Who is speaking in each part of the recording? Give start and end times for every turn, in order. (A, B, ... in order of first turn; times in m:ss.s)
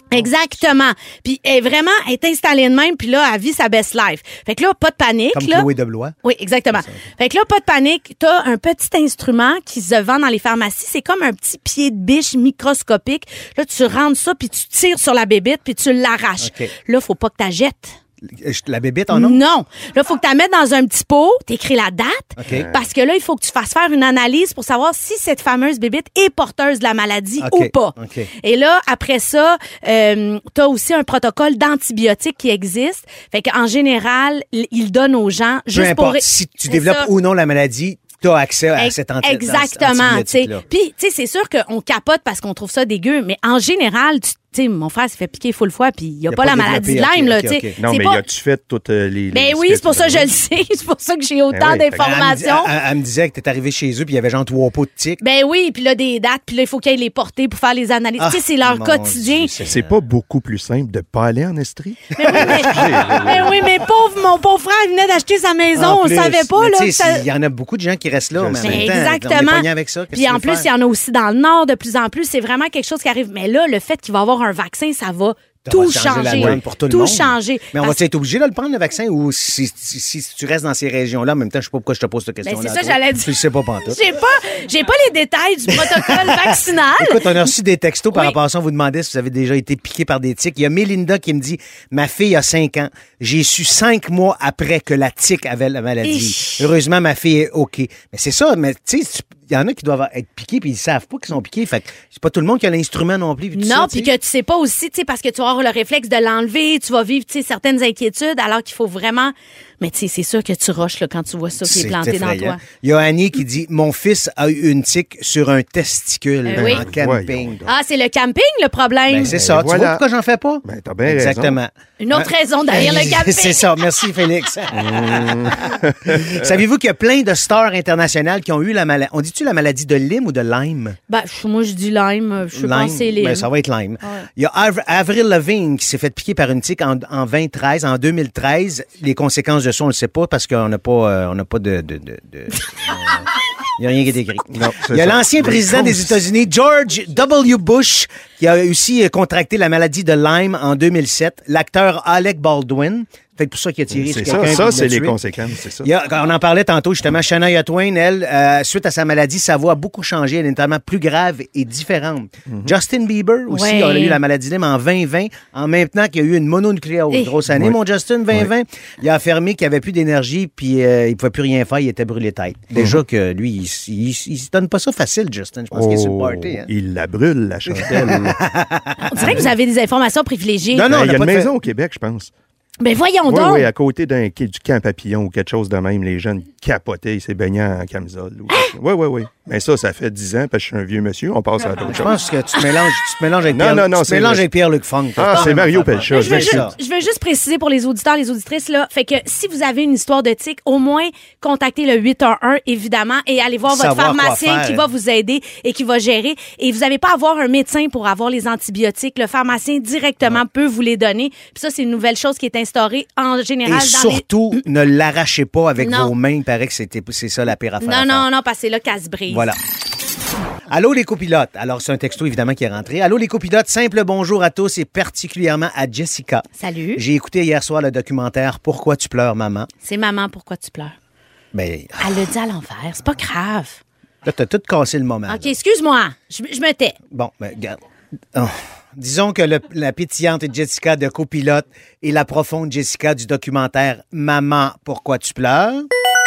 0:00.1-0:05.7 A
0:05.3-0:06.2 B
0:06.2-0:18.0 A
0:06.7-0:07.0 B
0:16.4-0:16.7 B
0:18.3-0:19.4 B
0:19.1-0:37.1 A
0:22.4-0:22.7 B
0:22.5-0:22.8 C
0:27.4-0:28.3 B
0:35.7-0:40.6 B
0:38.8-0:48.2 A
0:46.3-0:47.8 B
0:47.8-0:50.3 C
0:49.3-0:52.7 A
0:51.5-0:52.0 C
0:52.0-0:55.2 B
0:55.2-0:59.5 A
0:58.2-1:00.0 B
0:59.6-1:03.6 C
1:02.2-1:07.2 A
1:02.3-1:02.9 B
1:05.8-1:10.7 B
1:08.4-1:08.9 C
1:08.6-1:18.0 A
1:15.6-1:24.0 B
1:16.3-1:16.6 C
1:22.4-1:23.3 A
1:23.9-1:27.3 A
1:25.7-1:44.1 B
1:36.0-1:36.7 A
1:43.6-1:52.6 A
1:51.6-1:57.6 B
1:56.5-1:56.8 A
1:56.6-1:57.7 C
1:57.7-1:59.3 A
1:59.1-2:11.0 B
1:59.3-2:00.0 C
2:00.6-2:01.6 C
2:02.0-2:03.6 A
2:04.8-2:06.5 C
2:11.1-2:13.5 A
2:12.5-2:35.2 B
2:24.5-2:26.2 C
2:34.0-2:35.9 C
2:35.8-2:56.7 B
2:43.5-2:44.2 A
2:47.5-2:47.8 C
2:55.7-2:58.4 C
2:57.7-2:59.4 B
2:59.0-3:00.9 A
2:59.2-2:59.5 C
3:00.7-3:01.5 B
3:00.9-3:02.3 C
3:02.8-3:03.7 A
3:03.3-3:12.2 C
3:11.8-3:16.7 B
3:13.5-3:14.5 C
3:15.2-3:16.7 C
3:16.1-3:34.6 A
3:23.7-3:24.8 B
3:33.6-3:38.3 B
3:35.8-3:36.1 A
3:37.8-3:39.5 A
3:39.3-3:39.6 B
3:40.7-3:49.7 B
3:46.6-3:47.0 A
3:49.8-3:51.0 A
3:51.5-3:52.2 B
3:52.0-3:53.8 A
3:54.2-3:55.6 B
3:55.3-3:57.0 A
3:57.1-3:57.8 B
3:58.3-4:05.9 B